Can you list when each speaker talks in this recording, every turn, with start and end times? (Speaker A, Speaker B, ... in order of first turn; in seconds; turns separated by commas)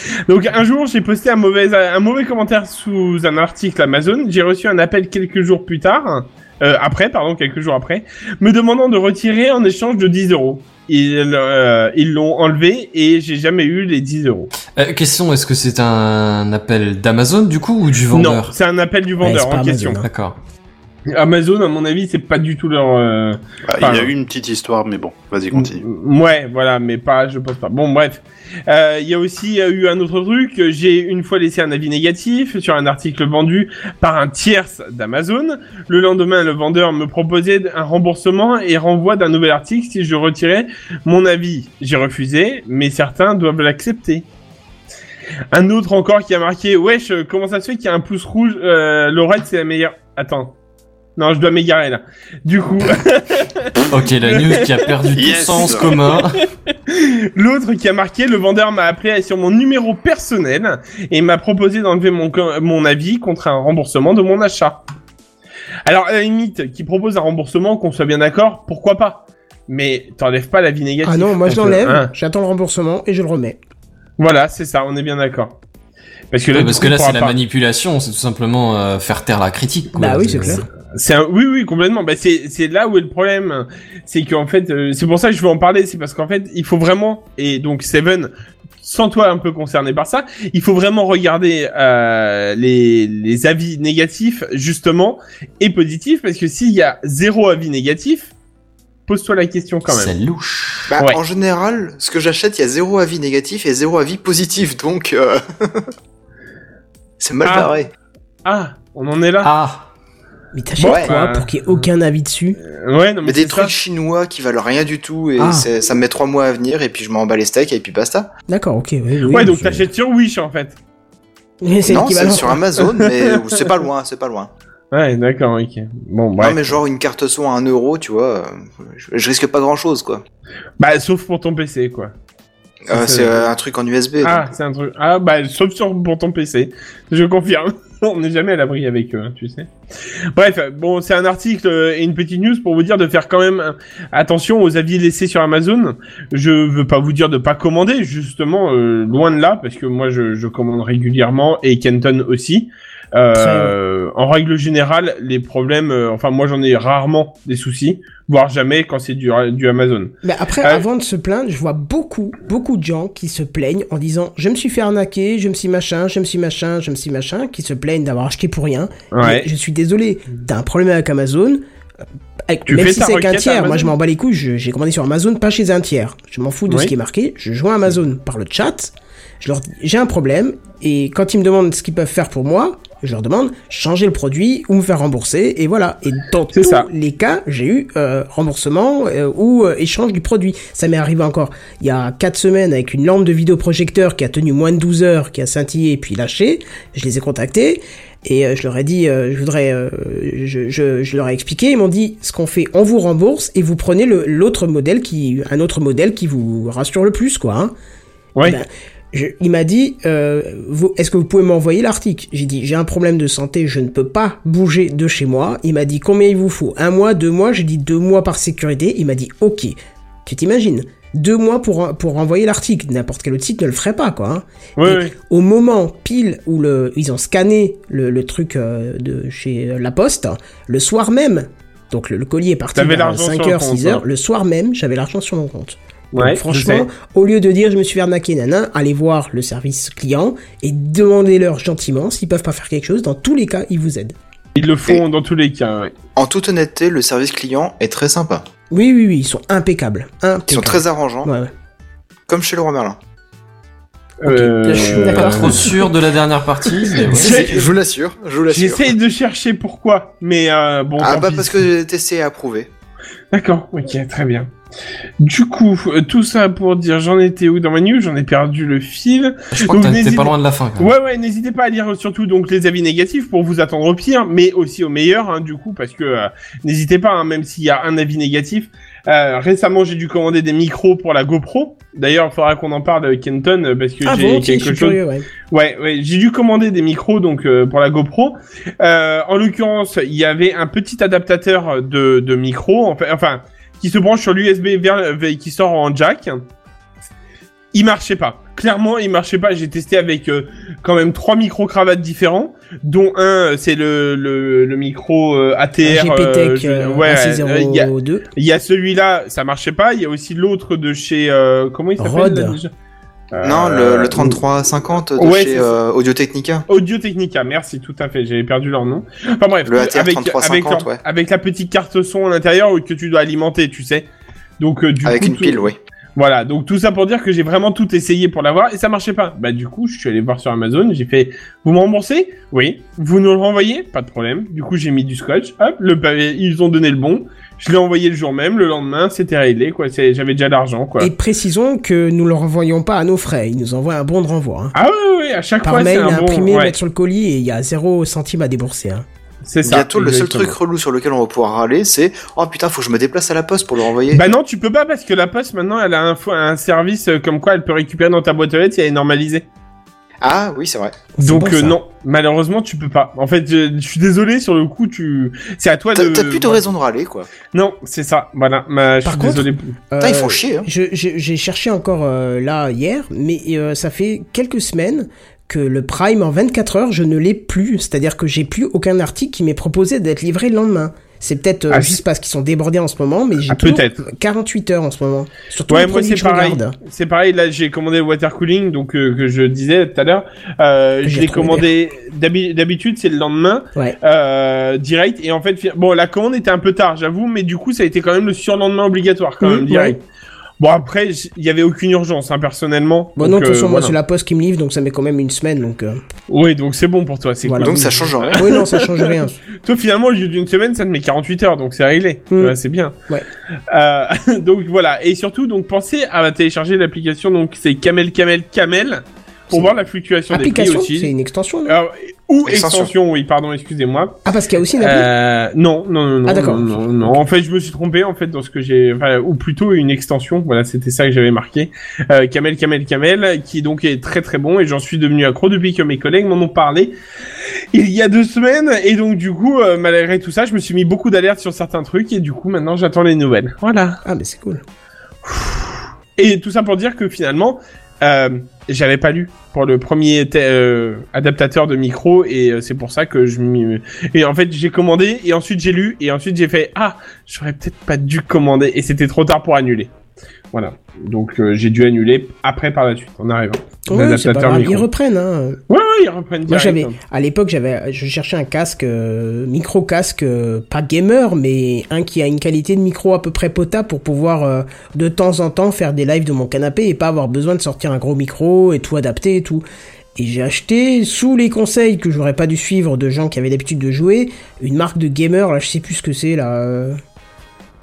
Speaker A: 0.3-14.5, Speaker B: 14.8-18.5, Speaker A: 18.1-20.0, Speaker C: 19.2-20.1, Speaker B: 20.0-20.4, Speaker A: 21.1-24.1, Speaker D: 23.7-25.8, Speaker A: 25.5-44.2, Speaker A: 45.5-50.5, Speaker A: 51.2-54.9, Speaker B: 53.9-56.4, Speaker D: 55.1-55.9, Speaker A: 55.5-64.8, Speaker A: 65.8-72.1, Speaker C: 71.0-73.6, Speaker A: 74.2-75.6, Speaker A: 76.3-77.3, Speaker B: 76.5-80.6, Speaker C: 79.9-80.7, Speaker A: 80.8-98.3, Speaker A: 99.1-100.1, Speaker B: 99.9-100.9, Speaker E: 100.9-105.9, Speaker E: 107.2-107.9, Speaker A: 107.5-107.7, Speaker A: 108.5-109.5, Speaker B: 109.4-109.9, Speaker C: 110.5-112.6, Speaker E: 110.8-111.1, Speaker A: 110.8-111.8, Speaker A: 112.6-113.7, Speaker E: 113.2-118.3, Speaker C: 115.4-115.7, Speaker C: 118.5-119.9, Speaker A: 119.3-120.8, Speaker C: 121.6-122.6, Speaker E: 121.8-124.5, Speaker A: 122.9-123.4, Speaker A: 124.9-126.7, Speaker E: 126.4-130.2, Speaker A: 130.8-132.1, Speaker E: 132.9-134.5, Speaker A: 132.9-133.4, Speaker A: 134.2-139.7, Speaker A: 140.3-160.8, Speaker C: 153.3-153.8, Speaker C: 160.2-171.6, Speaker A: 169.1-169.5, Speaker C: 172.5-207.7, Speaker A: 172.7-173.9, Speaker A: 176.7-176.9, Speaker A: 186.5-186.9, Speaker C: 208.4-244.2, Speaker A: 224.8-225.1, Speaker A: 232.8-234.0, Speaker A: 236.1-236.9, Speaker A: 244.6-245.9, Speaker E: 246.2-248.4, Speaker C: 248.7-251.5, Speaker E: 250.5-251.3, Speaker E: 252.3-253.0, Speaker A: 254.2-255.7, Speaker C: 254.3-255.9, Speaker B: 254.6-257.5, Speaker A: 256.9-257.7, Speaker E: 257.1-258.9, Speaker A: 258.5-261.7, Speaker E: 261.0-262.7, Speaker A: 263.3-264.5, Speaker A: 265.2-285.0, Speaker B: 269.5-270.9, Speaker C: 284.0-285.3, Speaker A: 285.5-296.4, Speaker A: 297.7-312.7, Speaker C: 305.8-308.3, Speaker C: 312.0-312.6, Speaker A: 313.3-314.4, Speaker E: 313.4-316.7, Speaker A: 315.2-315.7, Speaker A: 316.7-324.1, Speaker E: 319.7-321.0, Speaker A: 324.6-341.1, Speaker E: 325.0-325.8, Speaker C: 341.0-344.7, Speaker A: 344.7-346.8, Speaker C: 345.6-349.1, Speaker A: 349.4-350.6, Speaker E: 349.6-354.2, Speaker A: 354.1-359.4, Speaker E: 360.2-361.0, Speaker C: 361.2-361.8, Speaker A: 361.2-366.6, Speaker E: 365.9-367.3, Speaker A: 367.5-369.7, Speaker C: 369.0-386.8, Speaker E: 370.0-370.7, Speaker A: 381.7-382.0, Speaker A: 383.5-384.0, Speaker A: 385.7-400.0, Speaker C: 391.0-391.7, Speaker C: 399.4-400.0, Speaker A: 400.6-404.0, Speaker C: 403.2-406.0, Speaker A: 406.3-412.9, Speaker C: 407.4-409.4, Speaker E: 407.6-408.4, Speaker C: 412.3-412.6, Speaker A: 413.7-421.1, Speaker C: 420.3-421.8, Speaker A: 421.7-424.2, Speaker E: 422.4-422.9, Speaker C: 424.2-425.1, Speaker A: 424.8-436.9, Speaker C: 426.3-427.1, Speaker A: 437.7-444.0, Speaker C: 444.1-444.6, Speaker A: 445.2-459.9, Speaker A: 460.5-464.9, Speaker C: 463.9-465.6, Speaker A: 465.7-467.0, Speaker C: 466.5-479.6, Speaker C: 480.2-487.0